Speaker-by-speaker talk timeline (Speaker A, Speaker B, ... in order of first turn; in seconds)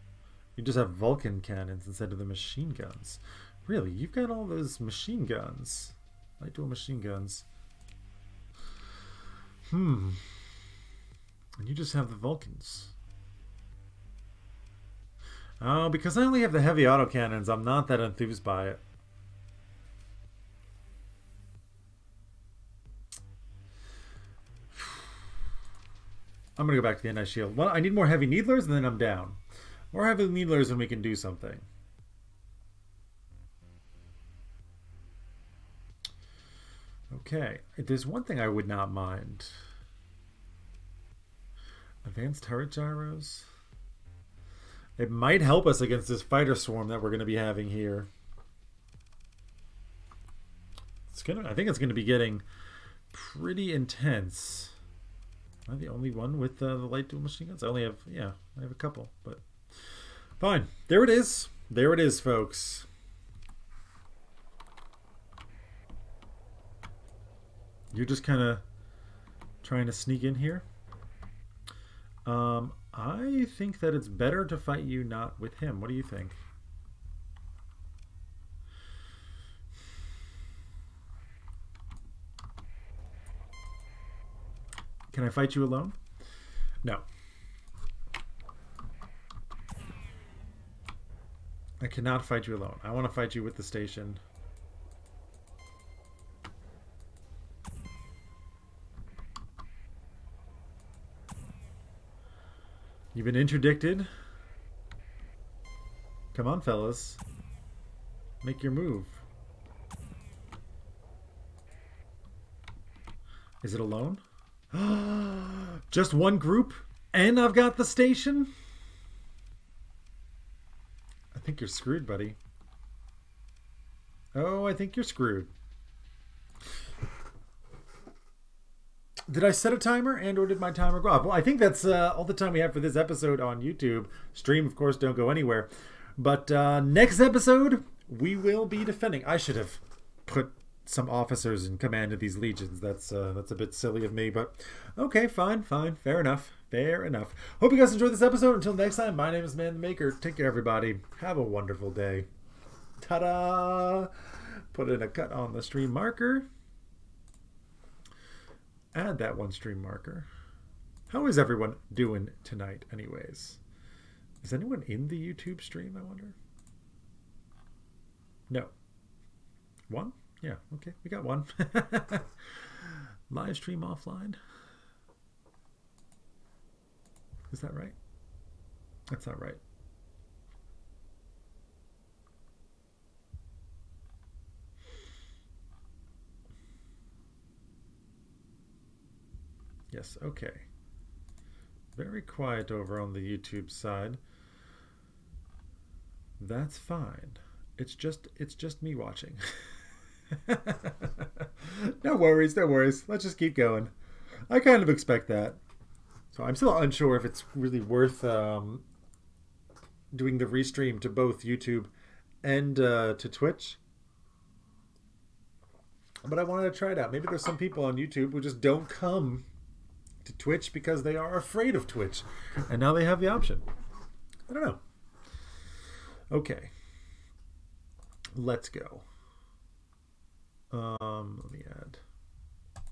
Speaker A: 0.6-7.5, 9.7-10.4, 11.6-12.9, 15.6-18.8, 24.7-25.1, 26.6-29.4, 29.9-31.7, 37.1-39.6, 42.0-43.5, 45.0-48.1, 51.1-52.4, 53.1-54.8, 55.7-59.5, 60.4-62.9, 67.9-68.6, 69.6-70.7, 72.3-76.4, 85.1-86.0, 91.8-94.2, 103.1-104.1, 106.3-107.2, 108.4-109.2, 113.6-118.5, 121.3-122.4, 124.3-125.5, 129.3-152.3, 153.0-156.5, 158.9-160.3, 161.1-163.6, 164.4-166.4, 169.9-174.4, 177.5-178.0, 179.1-179.6, 189.9-190.7, 191.9-194.2, 196.4-199.4, 200.3-203.9, 204.5-205.6, 206.3-208.8, 210.1-211.9, 212.4-213.8, 216.2-219.5, 220.2-223.6, 224.5-224.8, 226.3-226.7, 228.3-229.1, 230.7-232.0